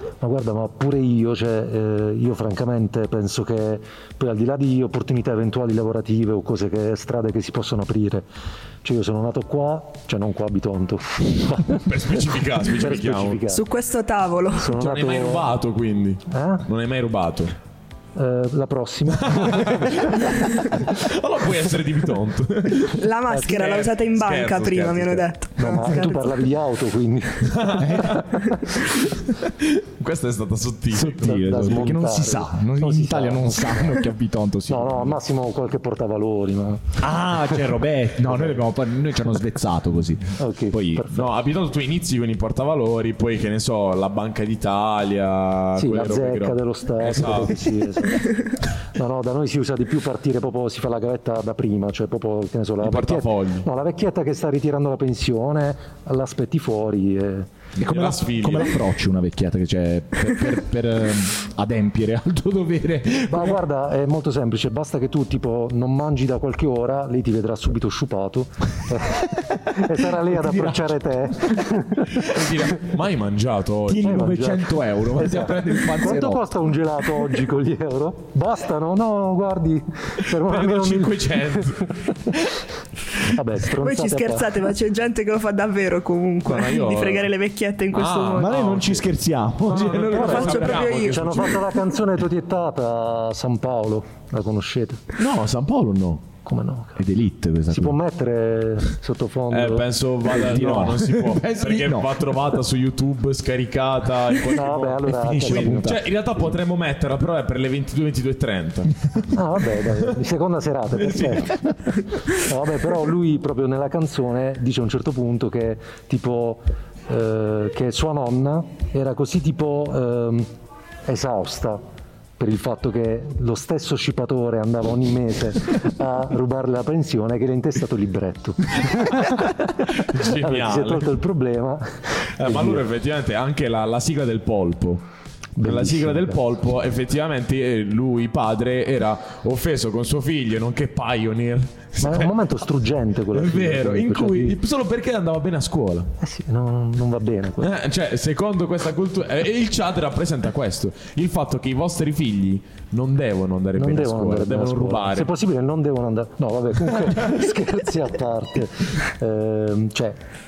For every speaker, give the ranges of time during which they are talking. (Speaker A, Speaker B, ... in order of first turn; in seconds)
Speaker A: 0.2-8.2, 8.8-11.8, 12.6-13.6, 14.6-15.5, 16.3-16.6, 18.1-20.3, 25.6-28.9, 31.2-34.0, 34.7-37.0, 38.3-38.6, 40.4-41.3, 45.8-57.5, 63.3-72.3, 74.0-82.3, 83.2-84.6, 89.8-95.0, 96.4-97.0, 97.7-100.9, 104.5-106.0, 109.3-111.6, 112.3-120.5, 121.0-121.8, 122.4-132.8, 135.6-136.5, 142.0-144.6, 146.2-147.7, 153.8-160.2
Speaker B: 11.7-13.4, 14.7-17.5, 19.2-25.2, 27.4-28.3, 29.4-31.4, 41.1-47.6, 52.8-53.7, 57.8-58.8, 72.2-74.2, 80.3-82.4, 86.4-87.3, 87.9-89.0, 89.7-91.7, 95.2-96.2, 99.5-109.3, 111.1-111.5, 129.9-131.1, 132.4-135.0, 135.6-142.3, 143.3-146.1, 147.6-155.3
Speaker C: 13.5-14.7, 22.9-26.3, 83.8-88.5, 90.1-91.6
Speaker D: 27.8-28.3, 30.9-35.2, 37.0-41.0, 57.8-63.6, 69.5-71.0, 73.9-76.5, 88.4-90.5, 97.0-98.0, 100.3-102.2, 105.0-106.0